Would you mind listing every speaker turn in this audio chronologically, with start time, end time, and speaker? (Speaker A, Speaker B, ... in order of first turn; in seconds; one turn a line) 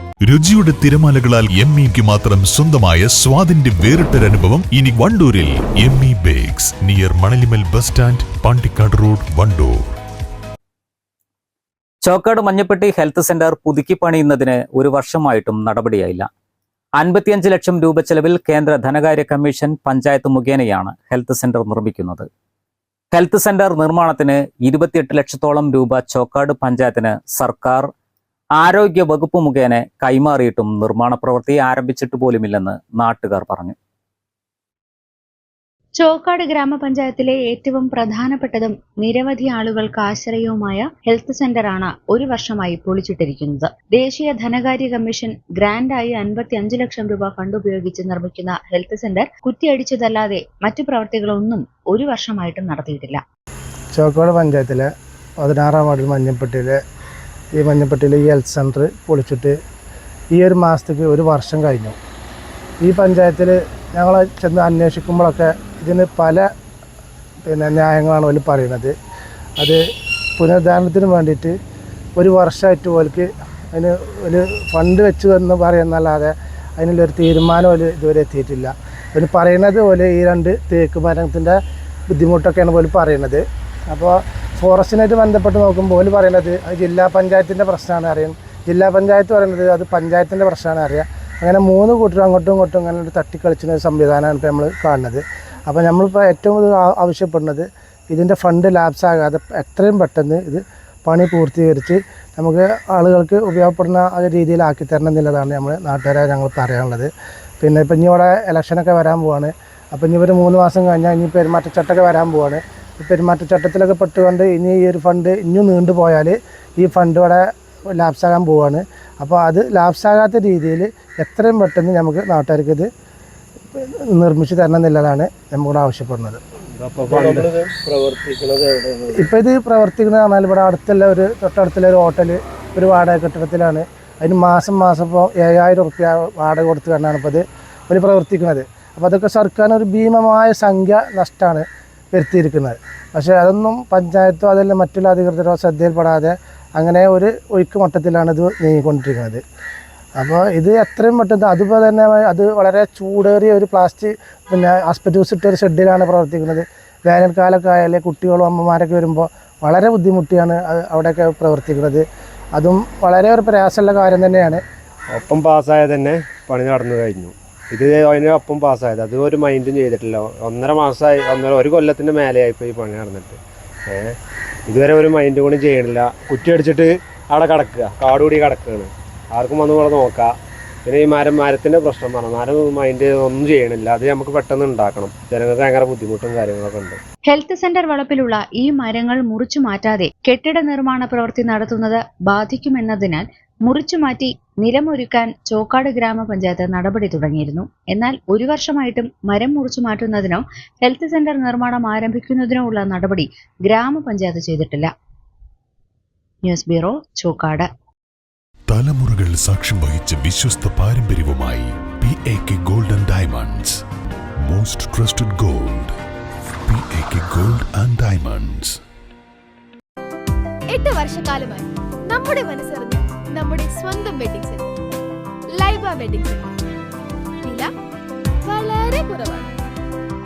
Speaker A: 0.2-9.9
Speaker B: 12.0-16.3
Speaker B: 17.0-22.3
Speaker B: 23.1-27.9
Speaker B: 28.6-33.8
Speaker C: 36.0-53.2
Speaker D: 53.9-56.8
Speaker D: 57.6-59.6
Speaker D: 60.3-62.0
Speaker D: 62.8-66.5
Speaker D: 67.5-68.9
Speaker D: 69.6-69.8
Speaker D: 70.4-71.5
Speaker D: 72.2-81.6
Speaker D: 82.1-117.5
Speaker D: 118.0-122.9
Speaker D: 123.7-126.4
Speaker E: 127.0-127.5
Speaker D: 129.1-149.4
Speaker D: 150.2-162.1
Speaker D: 162.6-164.6
Speaker E: 165.1-174.2
Speaker E: 174.7-180.3
Speaker E: 180.9-187.0
Speaker C: 187.3-204.9
Speaker C: 206.5-207.7
Speaker A: 208.7-213.8
Speaker A: 214.5-215.9
Speaker A: 216.7-218.8
Speaker F: 220.7-224.8
Speaker F: 225.6-226.6
Speaker F: 227.4-227.7
Speaker F: 228.5-229.5